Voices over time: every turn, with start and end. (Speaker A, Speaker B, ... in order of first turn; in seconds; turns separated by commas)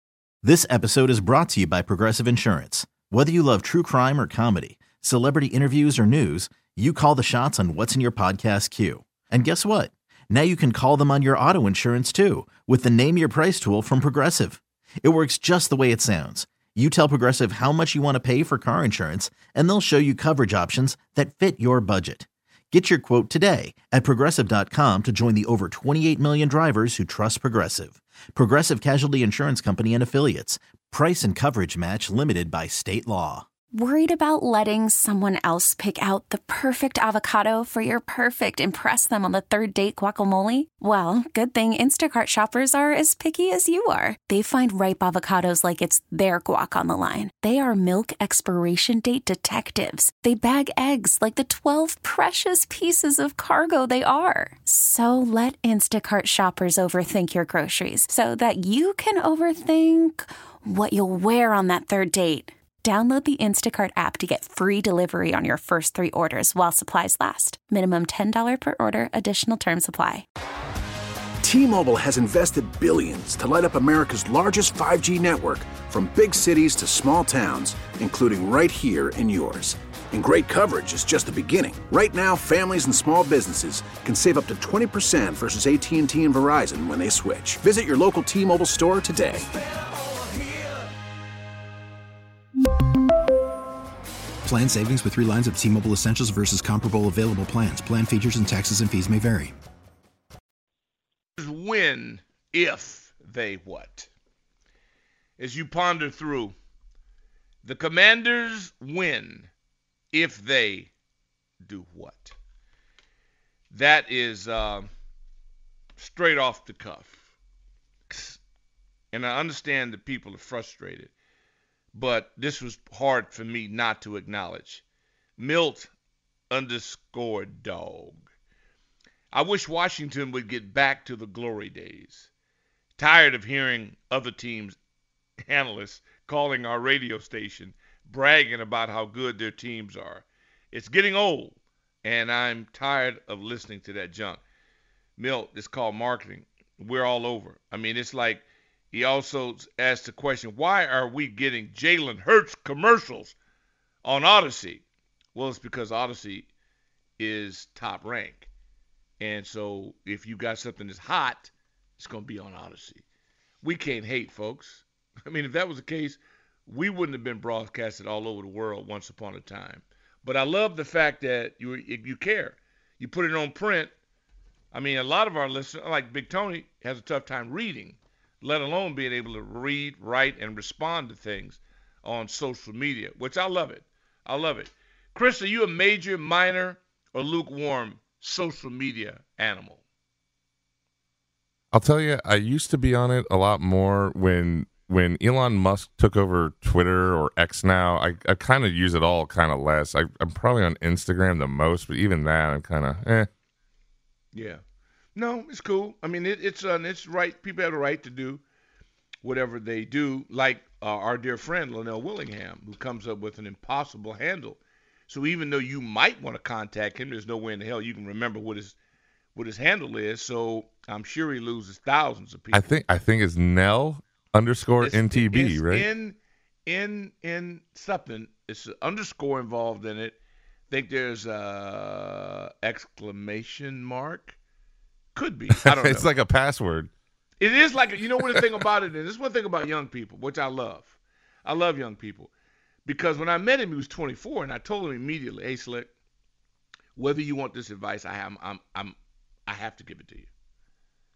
Speaker A: 0.4-33.5, Speaker B: 33.7-70.2, Speaker C: 71.4-89.5, Speaker D: 94.4-99.5, Speaker E: 101.4-104.1, Speaker E: 105.4-106.5, Speaker E: 107.6-109.5, Speaker E: 110.1-110.9, Speaker E: 111.7-112.3, Speaker E: 113.7-114.9, Speaker E: 116.0-117.2, Speaker E: 118.1-118.4, Speaker E: 119.1-121.1, Speaker E: 121.9-124.8, Speaker E: 125.4-125.9, Speaker E: 126.5-128.2, Speaker E: 129.3-132.3, Speaker E: 133.0-134.8, Speaker E: 135.4-144.4, Speaker E: 145.2-153.3, Speaker E: 154.0-154.8, Speaker E: 155.3-156.5, Speaker E: 157.2-158.5, Speaker E: 159.2-163.0, Speaker E: 163.6-173.9, Speaker E: 174.7-189.8, Speaker F: 191.7-203.3, Speaker E: 204.3-204.6, Speaker E: 205.2-208.4, Speaker E: 209.2-218.8, Speaker E: 219.3-222.8, Speaker F: 222.5-225.8, Speaker E: 224.8-230.2, Speaker E: 230.7-234.4, Speaker E: 235.1-236.1, Speaker F: 235.6-236.9, Speaker E: 237.4-240.9, Speaker E: 241.4-242.3, Speaker E: 242.8-245.9, Speaker E: 246.9-248.9, Speaker E: 249.5-250.3